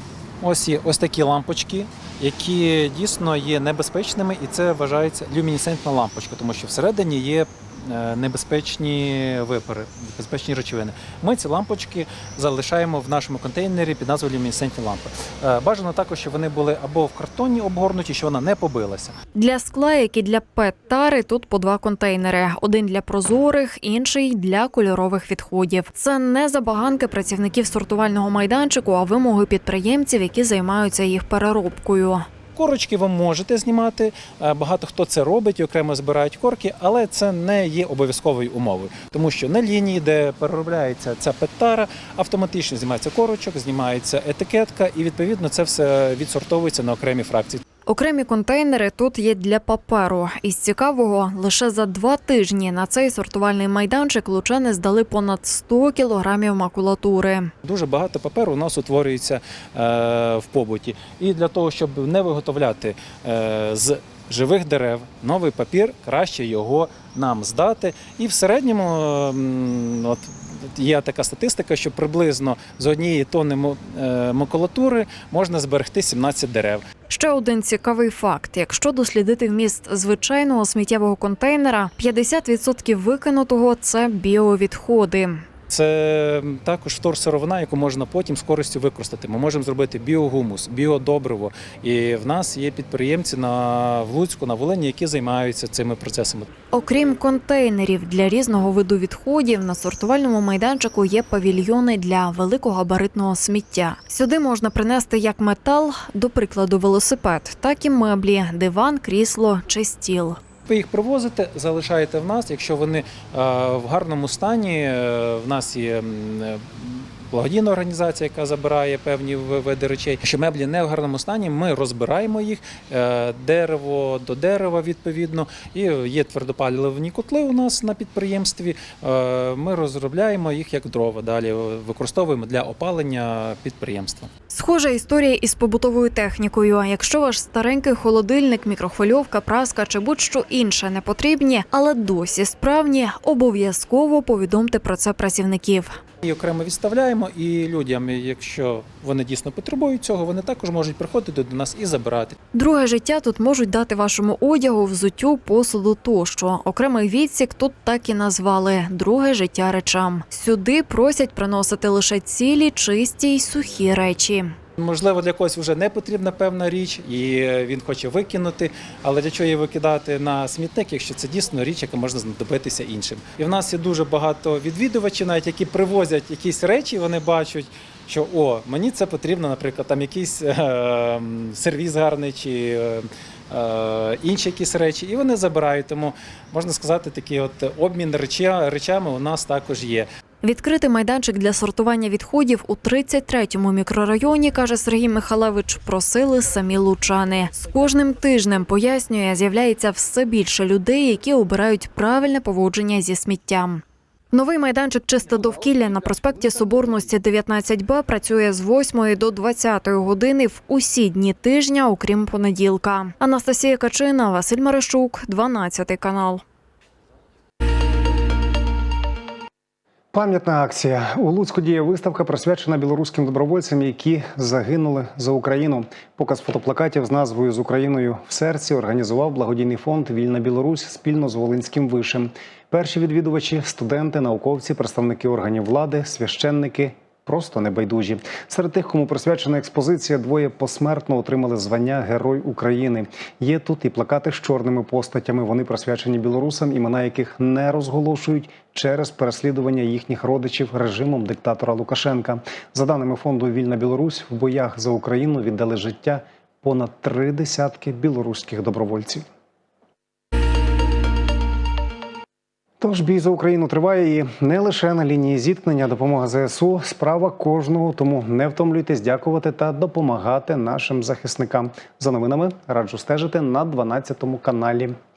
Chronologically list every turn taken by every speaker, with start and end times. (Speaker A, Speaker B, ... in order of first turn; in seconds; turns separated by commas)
Speaker A: 0.4-19.2, Speaker B: 19.4-32.2, Speaker A: 32.5-47.6, Speaker B: 47.9-57.5, Speaker A: 57.6-76.8, Speaker B: 77.1-85.4, Speaker A: 85.7-96.5, Speaker B: 96.7-110.4, Speaker A: 110.7-134.3, Speaker B: 134.5-146.0, Speaker A: 146.2-152.4, Speaker B: 152.5-164.5, Speaker A: 164.8-190.1, Speaker B: 190.4-216.4, Speaker C: 220.1-259.2, Speaker C: 262.8-274.9